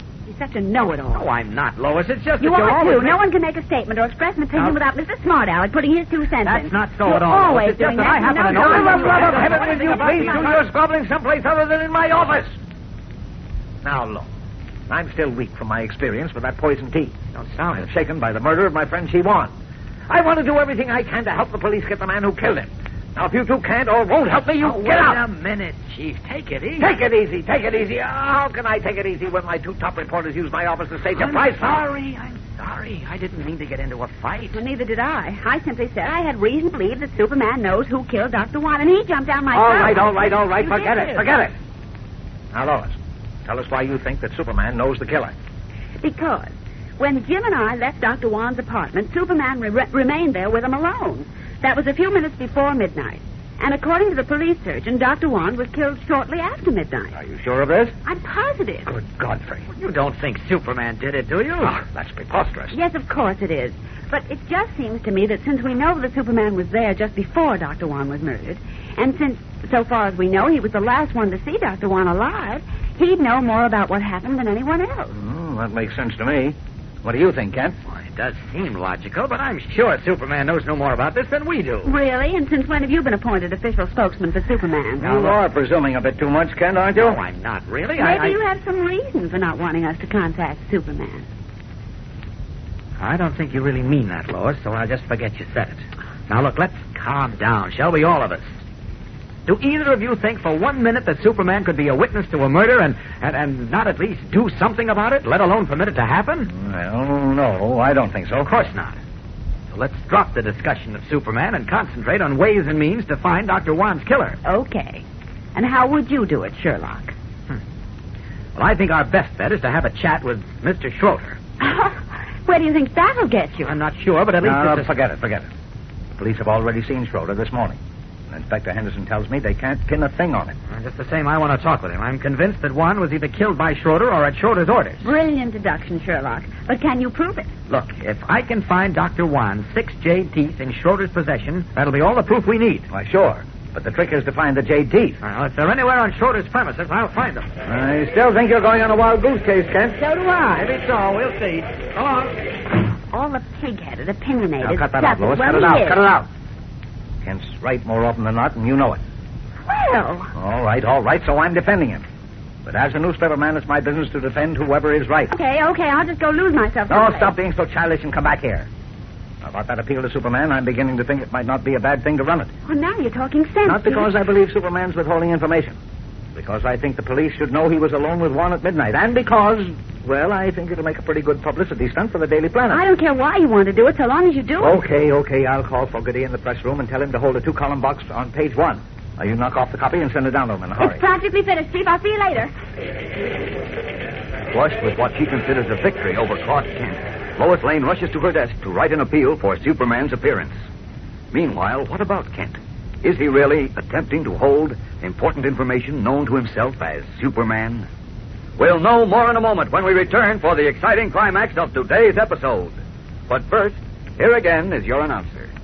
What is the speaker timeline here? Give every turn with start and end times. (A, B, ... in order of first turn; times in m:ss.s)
0:00.2-0:01.3 A
0:01.1-0:03.2 B
0:02.4-0:09.2 A
0:06.4-0:10.6 B
0:08.6-0:12.6 C
0:09.9-0:10.3 A
0:13.8-0:14.3 C
0:14.9-0:17.1 C
0:17.3-0:17.9 B
0:17.8-0:19.5 C
0:20.1-0:25.2 C
0:24.6-0:26.9 B
0:26.8-0:31.8 C
0:31.1-0:34.6 B
0:34.5-0:41.3 A
0:39.5-0:41.5 C
0:42.5-0:45.3 C
0:46.0-0:57.2 A
0:57.2-0:57.9 C
0:58.0-0:58.9 A
0:58.8-0:59.6 C
0:59.7-1:01.8 B
1:01.6-1:02.7 C
1:02.7-1:15.1 A
1:15.2-1:17.8 C
1:17.9-1:21.9 B
1:21.8-1:25.1 A
1:25.0-1:27.2 C
1:25.0-1:25.4 B
1:26.9-1:28.4 B
1:28.0-1:31.2 A
1:33.0-1:38.6 B
1:39.4-1:46.5 B
1:46.5-1:48.5 C
1:48.4-1:49.0 B
1:49.7-1:54.4 B
1:54.4-1:55.0 A
1:55.5-1:57.1 A
1:58.6-2:01.4 B
2:01.6-2:03.7 A
2:03.6-2:04.9 B
2:04.4-2:05.5 C
2:06.2-2:07.8 C
2:08.3-2:10.6 C
2:10.7-2:15.1 B
2:15.0-2:17.6 A
2:17.7-2:22.9 B
2:22.9-2:25.2 C
2:25.2-2:27.4 B
2:27.6-2:30.0 C
2:30.0-2:30.7 A
2:30.7-2:32.3 B
2:33.1-2:36.0 A
2:34.6-2:36.3 C
2:37.2-2:39.0 C
2:39.6-2:40.3 A
2:40.4-2:42.0 C
2:42.6-2:45.3 C
2:45.3-2:47.3 A
2:46.9-2:48.7 C
2:49.4-2:52.5 C
2:52.6-2:54.2 A
2:53.6-2:55.8 C
2:56.3-3:02.8 C
3:02.7-3:04.8 A
3:04.6-3:11.0 C
3:10.8-3:12.5 A
3:14.5-3:20.5 D
3:21.3-3:27.8 D
3:28.6-3:35.5 D